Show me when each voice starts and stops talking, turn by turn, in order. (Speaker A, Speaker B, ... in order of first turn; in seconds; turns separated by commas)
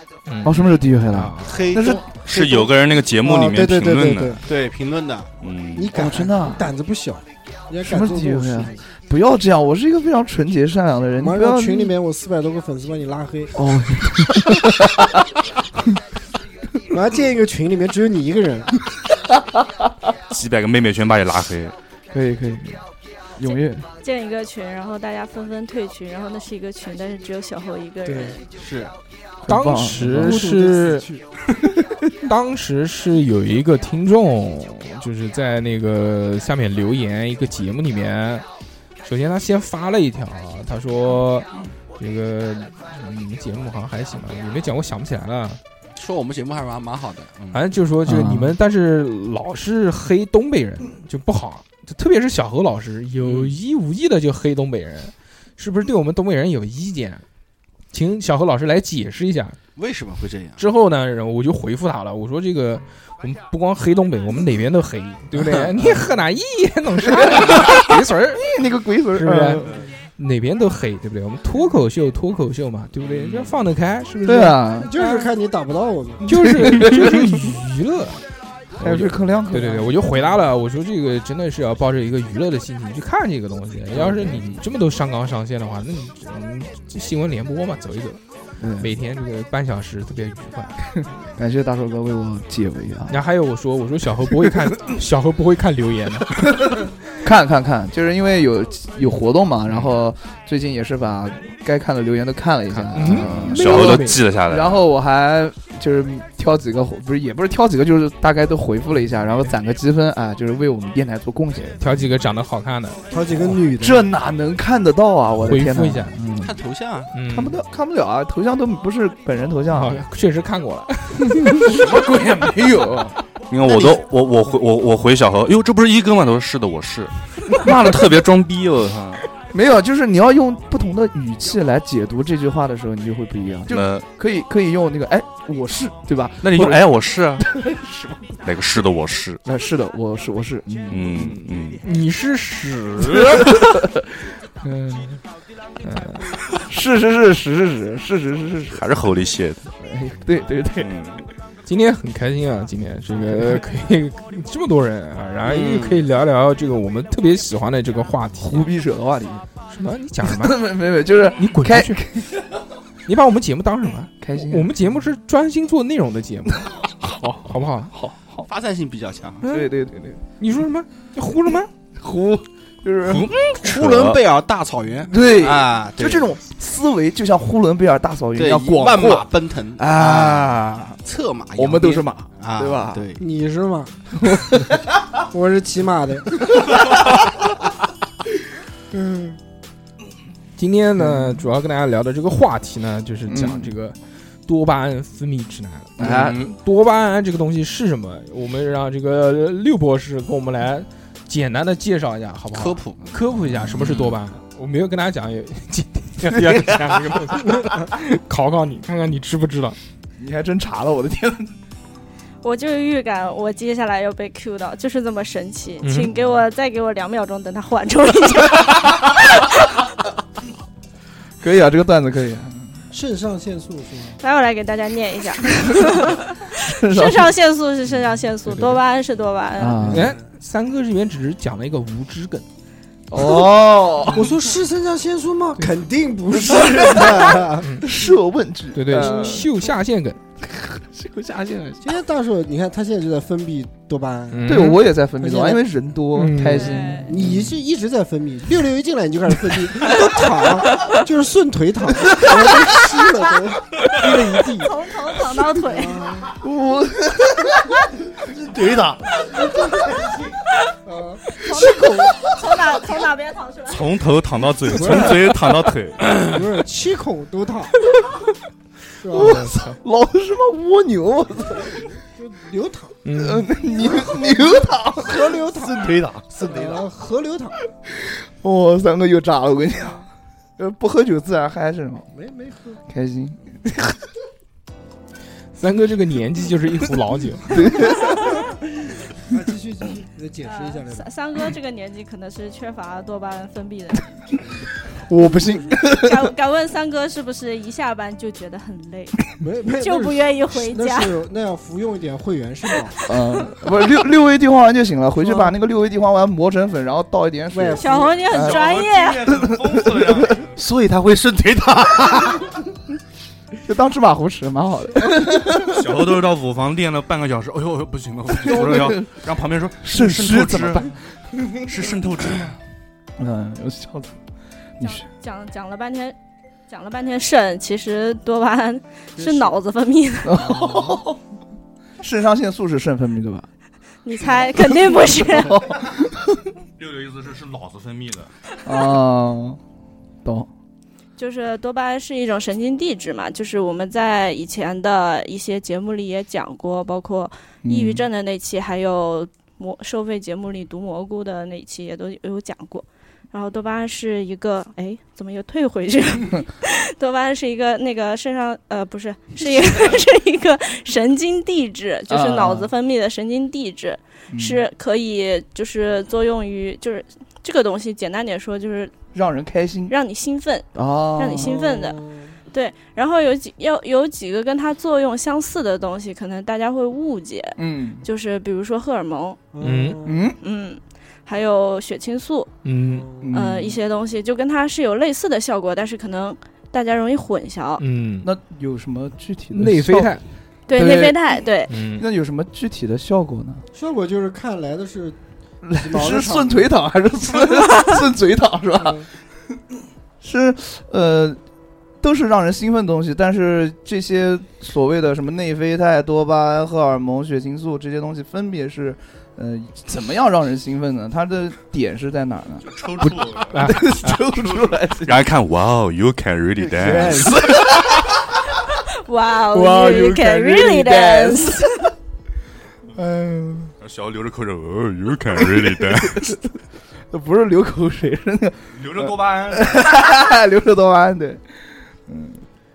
Speaker A: 0.3-1.6, Speaker B: 0.4-2.0, Speaker C: 1.4-2.7, Speaker D: 2.2-4.4, Speaker E: 3.2-4.4, Speaker C: 4.4-5.3, Speaker D: 5.4-5.9, Speaker E: 5.8-8.8, Speaker B: 5.9-6.7, Speaker B: 7.8-11.9, Speaker E: 11.2-13.6, Speaker B: 13.6-15.1, Speaker E: 16.9-18.7, Speaker D: 20.3-21.7, Speaker B: 22.1-22.8, Speaker B: 23.4-23.9, Speaker F: 24.0-28.4, Speaker E: 28.1-28.4, Speaker C: 28.6-28.9, Speaker B: 29.4-30.5, Speaker A: 29.5-31.1, Speaker E: 30.1-31.2, Speaker A: 32.2-38.5, Speaker A: 39.0-45.6, Speaker C: 46.0-47.7, Speaker A: 47.5-57.2, Speaker B: 48.1-48.6, Speaker C: 53.2-53.5, Speaker A: 57.9-59.6, Speaker C: 59.8-60.6, Speaker A: 60.6-68.5, Speaker B: 67.1-67.9, Speaker B: 68.4-69.8, Speaker A: 69.1-69.7, Speaker A: 70.2-75.3, Speaker B: 73.2-73.5, Speaker B: 74.3-74.9, Speaker E: 74.8-76.6, Speaker A: 76.3-78.2, Speaker B: 76.3-77.4, Speaker A: 78.8-88.2, Speaker B: 78.8-80.3, Speaker B: 83.9-84.6, Speaker B: 88.6-88.9, Speaker A: 88.8-91.1, Speaker B: 91.4-93.2, Speaker A: 93.1-96.8, Speaker B: 96.6-111.8, Speaker A: 102.7-104.2, Speaker D: 103.2-104.8, Speaker A: 111.8-113.5, Speaker E: 113.1-114.1, Speaker B: 113.7-116.6, Speaker A: 115.4-116.2, Speaker C: 116.3-117.1, Speaker A: 117.1-117.6, Speaker B: 117.3-120.0, Speaker A: 119.7-121.8, Speaker B: 121.4-123.1, Speaker D: 121.8-123.0, Speaker D: 123.5-129.2, Speaker B: 123.7-124.0, Speaker B: 129.4-138.3, Speaker D: 133.7-134.1, Speaker D: 136.4-137.5, Speaker D: 138.4-139.4, Speaker B: 139.4-141.4, Speaker D: 140.9-141.8, Speaker A: 141.1-143.3, Speaker B: 143.2-143.6, Speaker B: 144.6-145.2, Speaker A: 145.8-146.3, Speaker B: 146.7-148.8, Speaker D: 148.7-149.7, Speaker B: 149.8-150.9, Speaker D: 150.8-151.2, Speaker A: 151.7-158.7, Speaker C: 155.4-156.1, Speaker B: 158.4-159.5, Speaker A: 159.7-160.6, Speaker B: 160.2-162.6, Speaker A: 161.4-162.0, Speaker A: 163.1-167.9, Speaker B: 164.2-164.8, Speaker B: 167.9-168.4, Speaker C: 168.4-169.4, Speaker A: 169.4-169.7, Speaker B: 169.5-170.2, Speaker A: 170.4-171.7, Speaker B: 172.0-173.3, Speaker D: 173.1-174.2, Speaker C: 173.5-176.3, Speaker B: 175.1-181.0, Speaker C: 178.3-183.2, Speaker B: 181.6-183.1, Speaker E: 183.2-184.7, Speaker B: 184.3-184.6, Speaker E: 185.2-186.7, Speaker B: 188.9-189.4, Speaker A: 190.6-209.8, Speaker B: 191.0-191.4, Speaker B: 193.3-193.8, Speaker B: 196.0-196.4, Speaker C: 196.0-196.5, Speaker C: 202.5-203.2, Speaker B: 203.5-203.8, Speaker B: 210.2-211.6, Speaker F: 212.4-219.8, Speaker A: 215.8-216.1, Speaker B: 221.4-222.8, Speaker E: 222.9-224.2, Speaker F: 224.2-229.8, Speaker B: 226.5-227.4, Speaker A: 228.5-228.8, Speaker B: 229.6-230.2, Speaker E: 229.8-230.2, Speaker A: 229.9-232.4, Speaker B: 233.1-234.3, Speaker E: 234.1-237.7, Speaker B: 235.6-239.5, Speaker A: 237.6-237.9, Speaker A: 238.7-240.2, Speaker E: 238.9-239.5, Speaker B: 240.4-241.9, Speaker E: 241.8-244.6, Speaker A: 244.3-244.8, Speaker B: 244.5-247.3, Speaker E: 245.2-245.7, Speaker A: 246.2-247.5, Speaker F: 246.5-247.1, Speaker E: 247.0-254.7, Speaker F: 254.5-256.2, Speaker E: 255.6-256.4, Speaker B: 256.4-257.8, Speaker G: 258.3-259.1, Speaker E: 259.2-260.1, Speaker E: 260.9-261.2, Speaker F: 261.3-263.9, Speaker B: 261.5-262.6, Speaker D: 263.7-266.2, Speaker E: 264.6-265.5, Speaker B: 264.8-265.0, Speaker E: 266.2-267.8, Speaker E: 269.0-269.5, Speaker B: 269.1-271.8, Speaker A: 269.1-269.8, Speaker E: 271.6-273.0, Speaker A: 273.1-273.5, Speaker B: 273.1-275.5, Speaker E: 273.7-275.9, Speaker G: 275.5-276.9, Speaker E: 276.4-277.6, Speaker B: 277.9-282.1, Speaker E: 282.1-282.8, Speaker B: 282.9-283.7, Speaker A: 285.6-287.7, Speaker B: 287.5-288.4, Speaker E: 289.2-291.1, Speaker F: 290.4-294.1, Speaker B: 295.1-296.3, Speaker F: 295.8-299.3, Speaker E: 299.4-303.1, Speaker F: 299.8-301.2, Speaker B: 303.1-308.7, Speaker E: 305.2-305.5, Speaker E: 307.5-308.3, Speaker F: 307.8-309.3, Speaker D: 308.3-310.5, Speaker B: 309.3-310.4, Speaker G: 310.6-312.5, Speaker B: 313.7-316.1, Speaker D: 315.6-320.9, Speaker B: 318.4-319.1, Speaker B: 319.8-321.0, Speaker D: 321.6-322.6, Speaker B: 323.2-324.2, Speaker B: 324.8-325.0, Speaker F: 324.8-326.1, Speaker F: 326.7-330.6, Speaker E: 329.2-329.6, Speaker B: 330.2-331.2, Speaker E: 330.6-330.9, Speaker B: 332.0-333.5, Speaker F: 334.0-335.7, Speaker B: 334.2-336.4, Speaker D: 336.8-338.3, Speaker B: 338.6-339.6, Speaker B: 340.2-340.5, Speaker F: 341.2-369.0, Speaker B: 347.6-348.1, Speaker B: 362.1-362.7, Speaker B: 364.3-364.6, Speaker B: 369.1-369.9, Speaker F: 369.9-379.4, Speaker B: 370.8-371.6, Speaker E: 371.4-372.4, Speaker B: 377.6-378.1, Speaker E: 379.5-380.3, Speaker A: 379.6-380.0, Speaker B: 380.0-380.4, Speaker F: 380.4-382.5, Speaker A: 382.6-383.1, Speaker E: 382.9-383.3, Speaker B: 383.2-383.8, Speaker F: 383.3-387.8, Speaker A: 387.8-388.3, Speaker B: 388.2-390.2, Speaker A: 389.5-390.2, Speaker F: 390.7-391.7, Speaker B: 390.7-391.4, Speaker A: 391.7-392.1, Speaker B: 392.0-393.7, Speaker E: 393.7-395.2, Speaker B: 395.7-399.1, Speaker E: 395.7-396.7, Speaker E: 398.8-399.1, Speaker B: 400.2-401.4, Speaker B: 402.0-415.3, Speaker D: 412.7-413.8, Speaker A: 413.5-414.2, Speaker D: 414.4-417.5, Speaker B: 416.7-418.1, Speaker F: 418.9-421.9, Speaker B: 419.5-421.9, Speaker B: 422.9-423.7, Speaker D: 423.8-426.4, Speaker B: 425.4-426.5, Speaker B: 427.1-432.4, Speaker D: 428.7-429.8